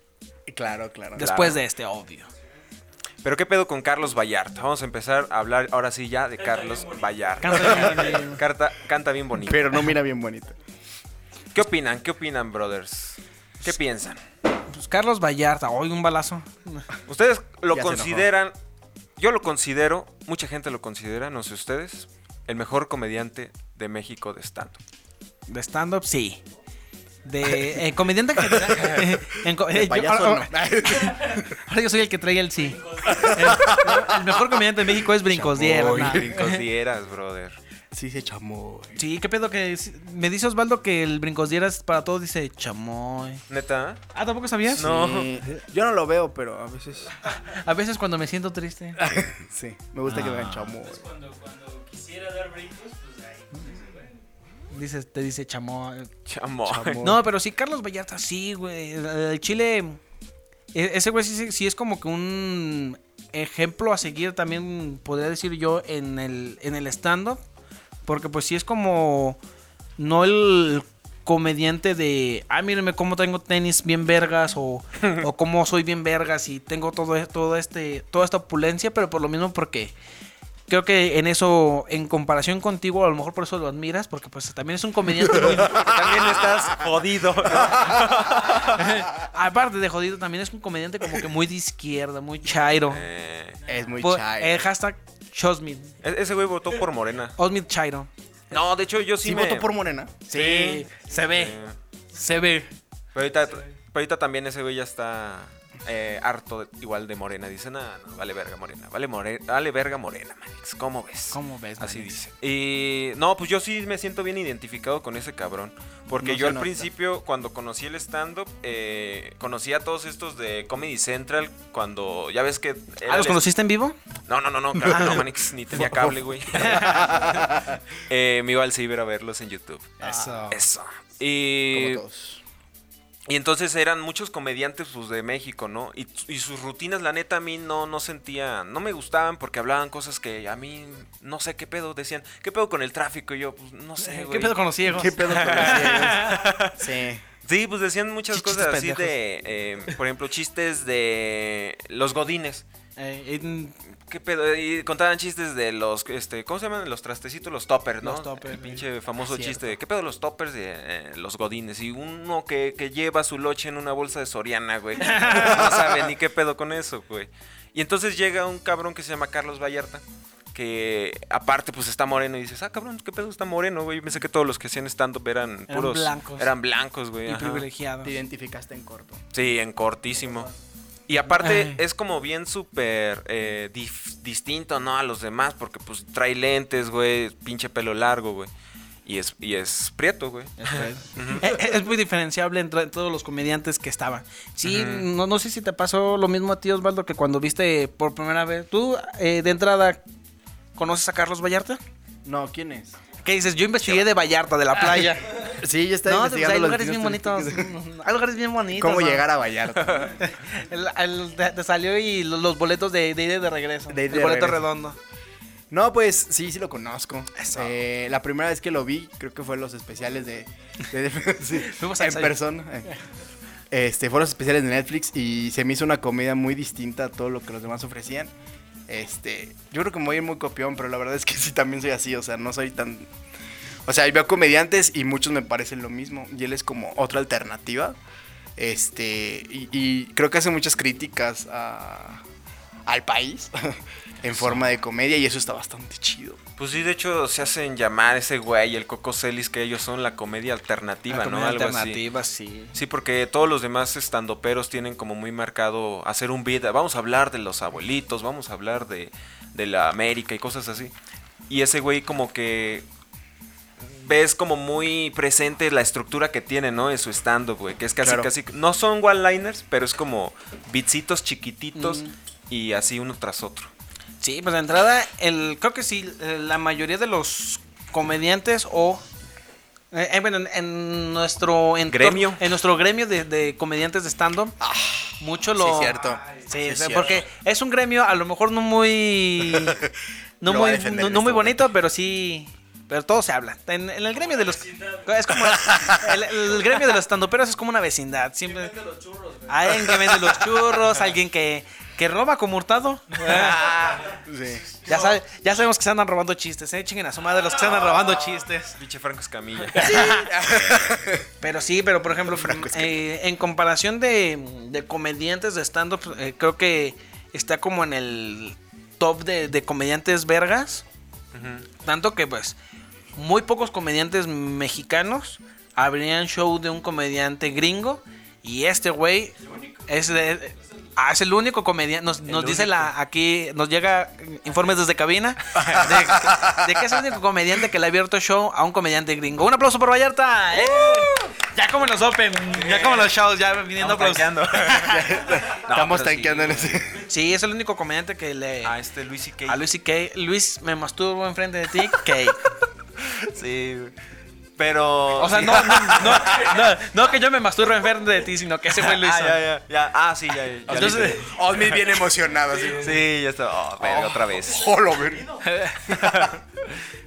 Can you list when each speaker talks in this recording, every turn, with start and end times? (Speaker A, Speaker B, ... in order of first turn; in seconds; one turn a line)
Speaker A: 0.5-1.4
Speaker B: 1.1-2.3
Speaker C: 1.2-1.6
Speaker C: 3.2-9.7
Speaker D: 6.4-7.7
Speaker B: 7.4-8.4
Speaker A: 9.4-10.5
Speaker C: 11.5-14.2
Speaker B: 14.7-16.9
Speaker C: 17.1-18.5
Speaker A: 17.7-18.3
Speaker C: 19.2-24.8
Speaker B: 25.5-26.4
Speaker B: 27.2-36.6
Speaker A: 29.7-31.5
Speaker D: 32.6-33.7
Speaker A: 35.2-36.4
Speaker C: 35.7-37.6
Speaker A: 37.9-39.0
Speaker B: 39.0-43.4
Speaker C: 43.5-44.0
Speaker B: 44.1-44.9
Speaker C: 44.7-45.3
Speaker A: 44.8-47.2
Speaker B: 47.2-49.0
Speaker A: 49.0-51.0
Speaker B: 50.1-50.7
Speaker D: 50.8-54.2
Speaker B: 54.7-56.1
Speaker C: 56.3-57.1
Speaker A: 56.7-57.2
Speaker B: 57.0-60.0
Speaker B: 60.7-67.4
Speaker B: 68.0-69.4
Speaker B: 70.0-79.9
Speaker B: 80.7-85.9
Speaker C: 85.4-89.0
Speaker B: 88.7-93.0
Speaker C: 92.9-93.6
Speaker A: 93.7-94.7
Speaker B: 94.0-95.9
Speaker C: 96.0-97.3
Speaker B: 97.4-98.5
Speaker C: 98.5-99.7
Speaker A: 99.2-100.8
Speaker B: 100.3-101.5
Speaker C: 100.3-101.8
Speaker B: 102.1-102.7
Speaker C: 103.1-123.5
Speaker B: 111.3-112.2
Speaker A: 116.2-116.9
Speaker B: 123.0-124.0
Speaker C: 124.3-127.2
Speaker B: 124.8-125.2
Speaker A: 125.7-127.8
Speaker B: 126.5-127.2
Speaker C: 128.1-132.0
Speaker B: 130.0-130.6
Speaker A: 130.1-130.4
Speaker A: 131.7-132.4
Speaker C: 133.3-152.6
Speaker B: 144.0-146.4
Speaker A: 144.8-147.2
Speaker A: 148.3-149.1
Speaker B: 153.0-153.8
Speaker C: 154.1-170.0
Speaker B: 158.0-159.7
Speaker B: 165.0-166.0
Speaker C: 170.5-177.7
Speaker B: 175.7-176.5
Speaker B: 177.2-178.1
Speaker A: 178.0-179.2
Speaker C: 179.3-180.5
Speaker C: 181.1-188.5
Speaker B: 181.3-181.8
Speaker C: 189.0-191.5
Speaker B: 190.6-200.0
Speaker C: 194.6-195.1
Speaker B: 200.7-201.8
Speaker A: 202.2-203.0
Speaker B: 203.2-209.2
Speaker A: 205.5-207.7
Speaker A: 208.7-210.2
Speaker B: 210.1-215.0
Speaker A: 213.9-214.7
Speaker A: 215.7-222.9
Speaker B: 217.3-217.8
Speaker B: 221.5-222.4
Speaker A: 223.7-228.3
Speaker A: 228.9-233.1
Speaker A: 233.8-238.0
Speaker A: 238.6-242.2
Speaker A: 242.8-246.4
Speaker C: 244.3-244.6
Speaker C: 246.6-252.0
Speaker B: 251.1-252.7
Speaker C: 252.7-260.9
Speaker C: 261.5-262.9
Speaker C: 263.8-273.7
Speaker A: 268.0-268.3
Speaker B: 271.7-272.1
Speaker B: 274.2-279.0
Speaker B: 279.9-284.5
Speaker C: 281.9-282.4
Speaker A: 284.6-287.2
Speaker B: 285.2-289.8
Speaker D: 285.9-287.3
Speaker A: 289.4-289.9
Speaker B: 290.4-298.9
Speaker A: 290.4-291.7
Speaker D: 294.1-295.4
Speaker D: 298.7-299.4
Speaker B: 299.4-303.9
Speaker A: 303.2-304.7
Speaker B: 304.8-308.8
Speaker C: 308.7-310.1
Speaker B: 309.8-310.3
Speaker A: 309.8-311.3
Speaker B: 311.4-320.8
Speaker A: 312.2-312.9
Speaker C: 321.3-321.7
Speaker B: 321.8-322.6
Speaker B: 323.1-329.3
Speaker D: 329.4-329.9
Speaker B: 329.9-344.9
Speaker C: 332.3-332.9
Speaker C: 335.6-336.2
Speaker C: 342.5-343.2
Speaker C: 343.7-346.8
Speaker A: 344.7-347.0
Speaker B: 346.9-348.7
Speaker C: 348.6-349.6
Speaker B: 349.4-352.4
Speaker C: 353.2-353.9
Speaker C: 354.6-356.6
Speaker B: 355.1-359.4
Speaker C: 358.8-361.8
Speaker B: 360.7-361.3
Speaker A: 360.8-363.0
Speaker C: 362.6-364.7
Speaker A: 363.8-366.2
Speaker B: 365.4-365.9
Speaker C: 365.9-366.4